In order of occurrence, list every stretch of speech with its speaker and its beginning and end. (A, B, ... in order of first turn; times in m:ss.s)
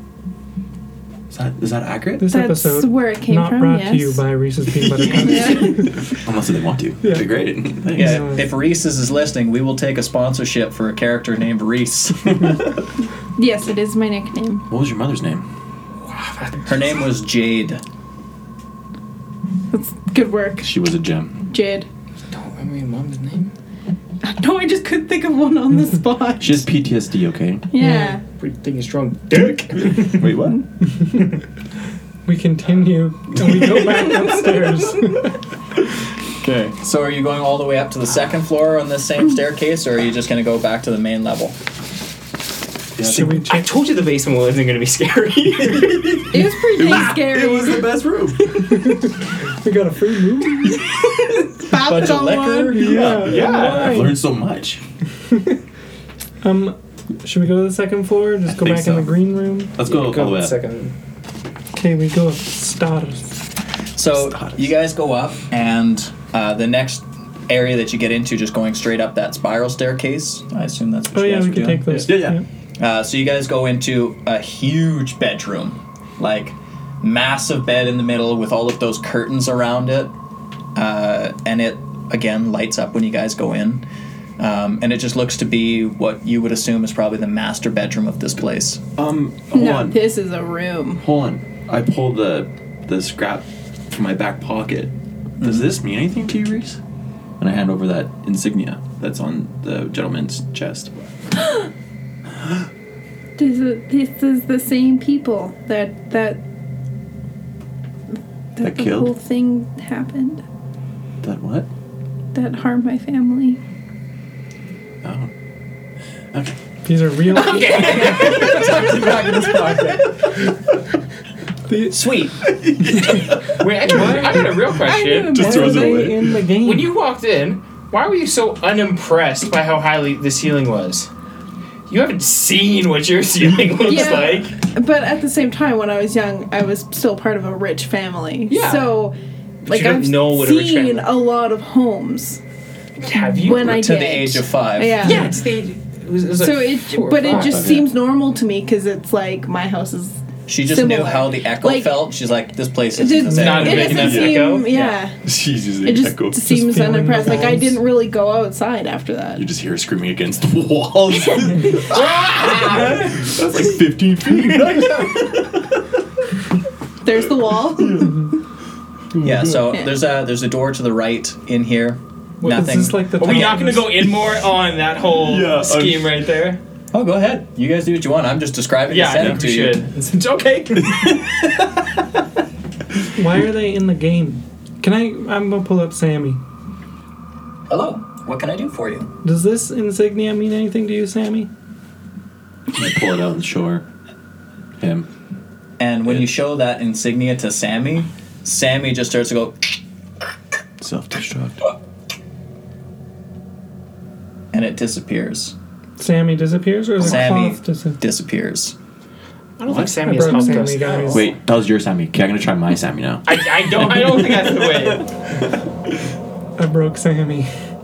0:01.3-0:02.3 A
0:02.2-0:06.0 B
0:02.3-0:04.2 C
0:04.8-0:08.3 A
0:05.1-0:05.9 C
0:07.0-0:08.5 B
0:07.9-0:12.6 D
0:12.3-0:12.7 A
0:13.4-0:14.6 C
0:14.7-0:15.4 A
0:16.0-0:17.1 E
0:16.6-0:17.8 D
0:19.7-0:20.7 C
0:20.6-0:21.5 A
0:21.5-0:21.9 C
0:22.3-0:23.5 E
0:24.2-0:26.7 C
0:26.4-0:27.7 A
0:27.7-0:28.2 C
0:27.8-0:28.2 B
0:28.3-0:30.5 E
0:30.0-0:30.6 A
0:32.3-0:35.4 B
0:33.5-0:33.8 A
0:36.4-0:36.8 A
0:36.7-0:41.6 D
0:43.0-0:43.4 A
0:43.0-0:46.3 E
0:43.0-0:43.7 B
0:45.6-0:48.6 A
0:46.3-0:47.9 C
0:48.6-0:50.8 B
0:51.6-0:53.0 C
0:51.8-0:52.7 D
0:51.9-0:54.8 A
0:52.7-0:54.2 B
0:53.2-0:54.1 E
0:55.3-0:55.6 B
0:56.4-0:59.7 B
0:58.4-1:00.6 A
0:59.8-1:01.0 E
1:01.7-1:03.4 B
1:04.0-1:12.0 D
1:04.2-1:04.6 A
1:11.1-1:12.4 B
1:11.9-1:12.4 A
1:12.8-1:20.1 D
1:20.7-1:23.8 D
1:24.4-1:28.8 D
1:29.0-1:30.0 A
1:29.5-1:31.0 C
1:31.0-1:36.8 A
1:35.4-1:35.7 D
1:37.4-1:40.9 A
1:43.4-1:46.4 C
1:48.6-1:50.4 C
1:48.6-1:49.1 A
1:51.2-1:51.7 A
1:52.3-1:53.6 C
1:55.0-1:55.3 A
1:56.8-1:58.0 B
1:57.3-1:59.1 E
1:57.6-1:58.8 C
1:58.1-2:00.1 D
2:01.7-2:02.0 B
2:01.9-2:02.4 E
2:02.4-2:04.6 A
2:03.0-2:05.4 E
2:03.8-2:04.6 B
2:04.8-2:06.1 C
2:05.2-2:06.4 A
2:05.3-2:06.9 B
2:06.6-2:11.1 E
2:11.9-2:14.6 E
2:13.8-2:22.4 C
2:18.5-2:18.9 E
2:19.6-2:21.1 E
2:23.0-2:23.8 E
2:23.2-2:25.4 C
2:23.4-2:25.2 D
2:25.0-2:27.7 E
2:26.4-2:32.0 C
2:27.3-2:27.9 A
2:30.5-2:34.2 D
2:32.9-2:35.2 C
2:33.3-2:35.0 E
2:33.5-2:34.7 A
2:35.2-2:36.6 A
2:35.8-2:39.4 C
2:36.4-2:37.8 B
2:39.4-2:45.8 A
2:41.9-2:43.1 E
2:47.0-2:48.4 C
2:47.7-2:48.3 A
2:49.1-2:49.7 A
2:49.2-2:53.6 D
2:52.4-2:56.6 E
2:52.4-2:54.0 B
2:55.1-2:56.3 A
2:56.9-2:59.8 D
2:58.9-3:01.4 E
3:03.1-3:06.4 B
3:07.7-3:09.1 D
3:09.2-3:11.5 B
3:12.7-3:13.8 A
3:14.8-3:15.1 A
3:15.8-3:19.8 D
3:20.8-3:21.7 A
3:24.5-3:25.6 D
3:26.0-3:28.0 B
3:27.0-3:28.7 D
3:29.6-3:31.4 E
3:29.6-3:35.4 A
3:30.0-3:31.3 B
3:33.3-3:35.1 E
3:36.6-3:37.5 B